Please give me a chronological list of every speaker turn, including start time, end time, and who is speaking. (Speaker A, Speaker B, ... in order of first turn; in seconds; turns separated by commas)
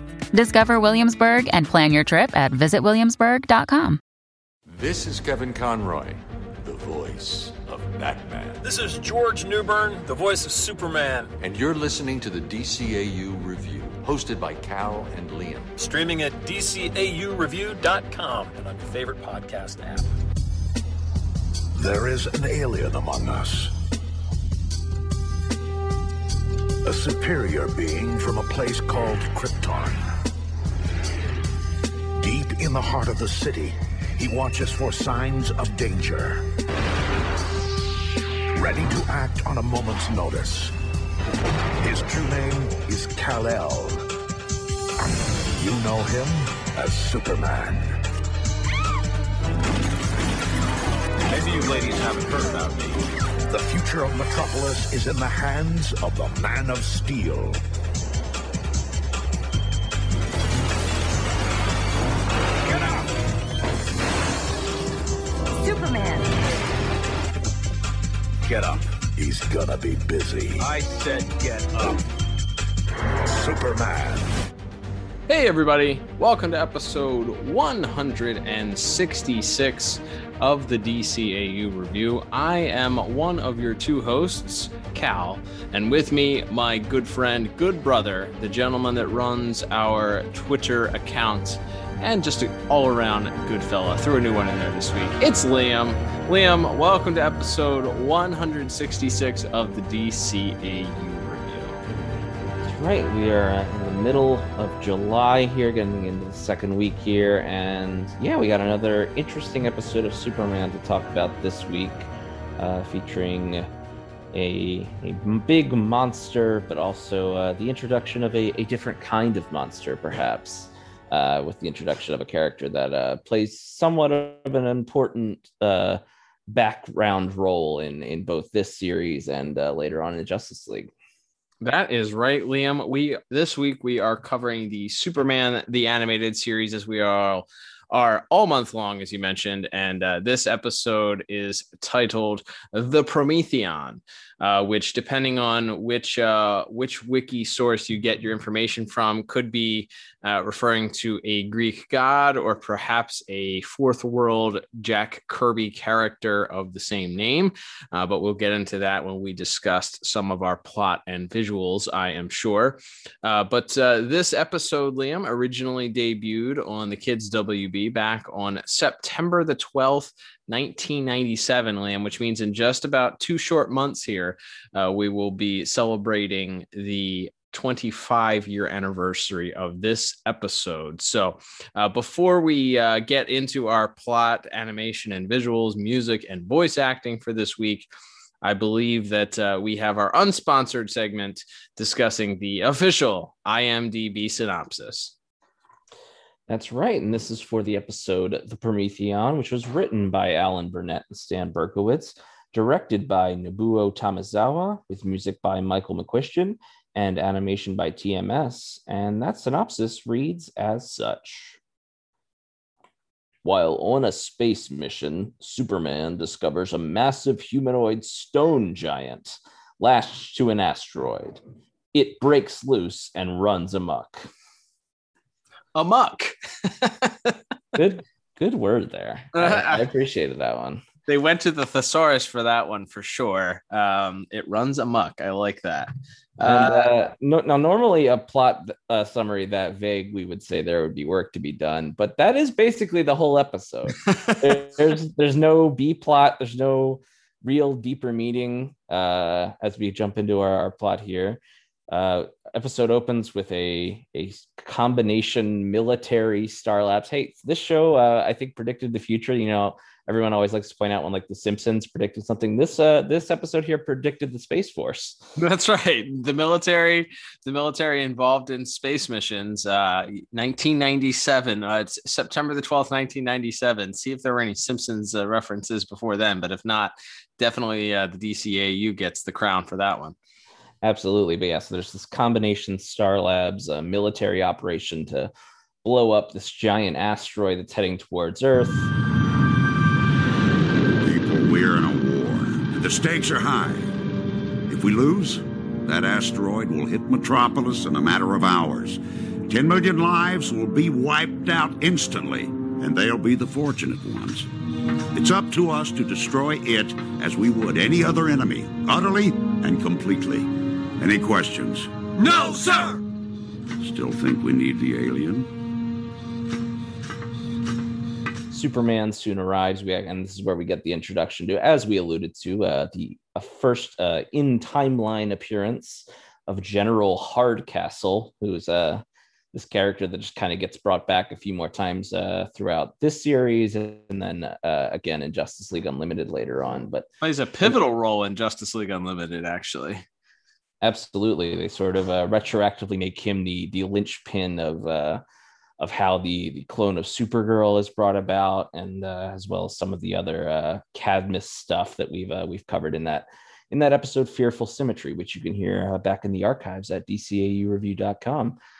Speaker A: 0.3-4.0, Speaker B: 4.7-8.7, Speaker C: 10.2-11.2, Speaker B: 11.4-15.7, Speaker C: 16.4-19.9, Speaker D: 21.7-23.7, Speaker D: 26.8-30.0, Speaker D: 32.2-36.4, Speaker D: 38.5-40.7, Speaker D: 41.8-44.1, Speaker D: 45.2-48.0, Speaker D: 53.5-57.6, Speaker D: 62.6-63.1, Speaker D: 68.4-70.7, Speaker D: 73.2-74.3, Speaker E: 75.3-101.8, Speaker F: 102.6-113.7, Speaker F: 114.3-130.9, Speaker E: 131.6-187.9, Speaker E: 188.4-195.1, Speaker F: 196.5-211.6, Speaker F: 213.4-221.4, Speaker F: 221.9-224.3, Speaker E: 225.7-227.4, Speaker F: 227.7-230.8, Speaker E: 229.3-229.8, Speaker E: 231.1-236.9, Speaker F: 236.4-265.2, Speaker E: 265.4-280.1, Speaker F: 280.8-285.3, Speaker F: 285.8-288.9, Speaker G: 291.0-293.9, Speaker G: 294.7-304.5, Speaker G: 305.1-311.9, Speaker G: 313.8-315.5, Speaker F: 318.5-337.1, Speaker E: 337.2-340.0, Speaker F: 340.8-345.2, Speaker F: 345.8-358.6